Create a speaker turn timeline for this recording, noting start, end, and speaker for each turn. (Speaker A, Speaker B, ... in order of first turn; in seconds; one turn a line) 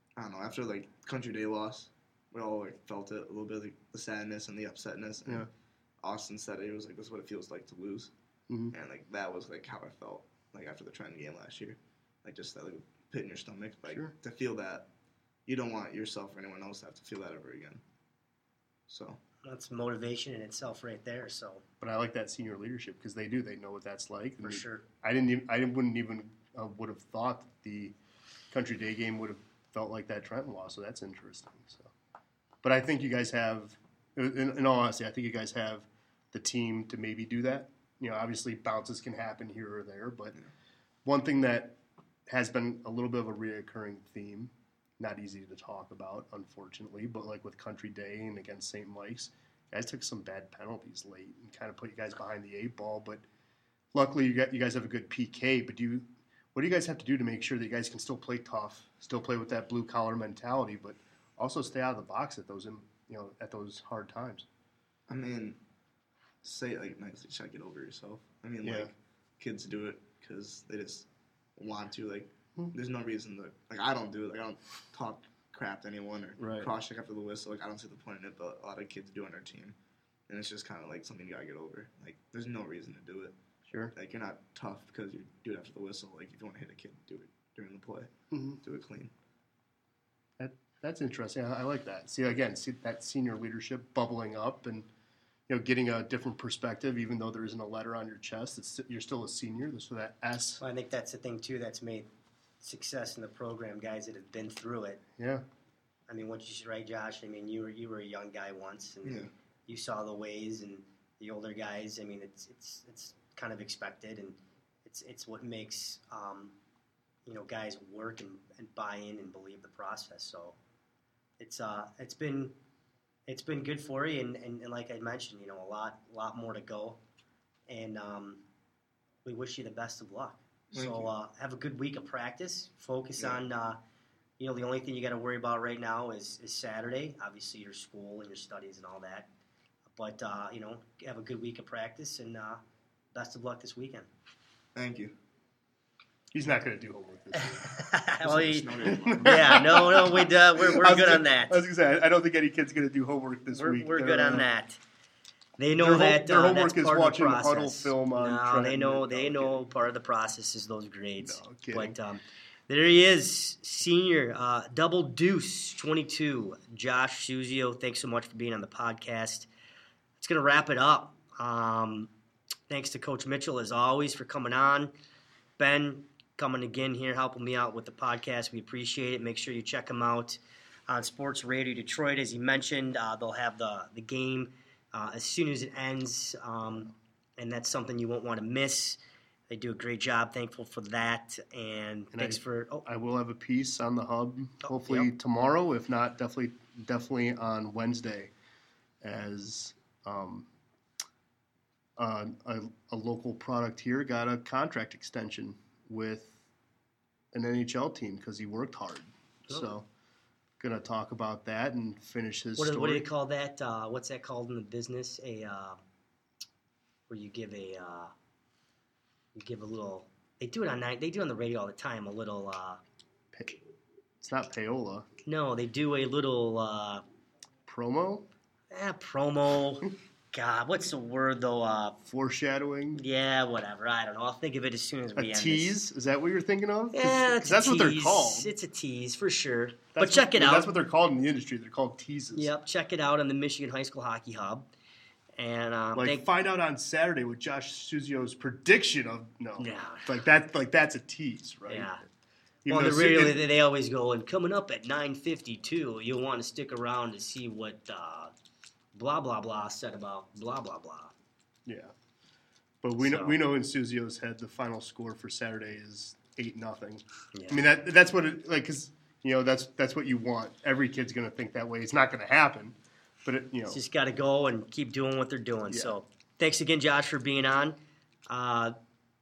Speaker A: 0.2-5.5
Speaker A: 6.0-8.1
Speaker B: 8.5-8.7
Speaker A: 8.7-14.9
Speaker A: 15.5-17.8
Speaker A: 18.9-19.2
Speaker C: 19.4-21.6
Speaker B: 21.8-27.9
Speaker C: 24.4-24.8
Speaker B: 28.5-31.9
Speaker B: 32.6-40.4
Speaker B: 41.0-41.8
Speaker B: 42.3-53.2
Speaker B: 53.9-64.5
Speaker A: 65.1-65.6
Speaker A: 66.4-79.8
Speaker B: 68.6-68.9
Speaker B: 76.4-76.7
Speaker A: 80.3-83.4
Speaker A: 83.9-88.1
Speaker B: 88.3-88.6
Speaker A: 88.6-89.1
Speaker B: 90.4-94.9
Speaker B: 95.5-100.6
Speaker C: 100.6-102.1
Speaker C: 102.6-105.0
Speaker B: 105.2-105.4
Speaker C: 106.1-116.5
Speaker A: 109.0-109.3
Speaker C: 117.3-120.6
Speaker C: 121.4-122.5
Speaker C: 123.3-127.0
Speaker C: 127.7-128.4
Speaker C: 129.2-133.8
Speaker A: 130.7-131.1
Speaker C: 134.4-139.3
Speaker C: 139.9-142.6
Speaker C: 143.1-144.1
Speaker A: 144.8-145.2
Speaker B: 146.3-147.6
Speaker C: 147.3-151.6
Speaker A: 148.2-149.9
Speaker B: 148.8-154.5
Speaker C: 153.5-154.8
Speaker C: 155.6-169.5
Speaker B: 155.8-159.6
Speaker B: 161.2-162.0
Speaker C: 170.2-172.1
Speaker C: 172.7-174.9
Speaker C: 175.6-189.0
Speaker C: 189.5-192.9
Speaker B: 192.1-198.3
Speaker C: 194.6-195.1
Speaker B: 199.0-200.5
Speaker B: 202.0-206.4
Speaker B: 207.3-209.9
Speaker B: 210.6-213.1
Speaker C: 212.6-215.8
Speaker C: 217.1-218.1
Speaker C: 219.3-222.8
Speaker B: 223.3-223.6
Speaker B: 224.2-225.1
Speaker C: 225.2-227.0
Speaker B: 227.7-228.3
Speaker C: 228.7-232.0
Speaker B: 232.1-233.0
Speaker C: 232.9-235.7
Speaker B: 235.2-238.5
Speaker C: 236.9-240.7
Speaker B: 239.9-242.5
Speaker C: 242.4-244.7
Speaker C: 245.4-246.2
Speaker B: 245.9-251.9
Speaker C: 249.6-250.1
Speaker C: 251.7-252.0
Speaker B: 252.7-253.4
Speaker C: 252.7-258.3
Speaker C: 258.9-261.1
Speaker B: 261.7-261.9
Speaker B: 262.8-273.8
Speaker C: 263.0-263.4
Speaker C: 267.3-267.6
Speaker C: 273.7-277.8
Speaker B: 275.7-275.9
Speaker C: 278.3-278.8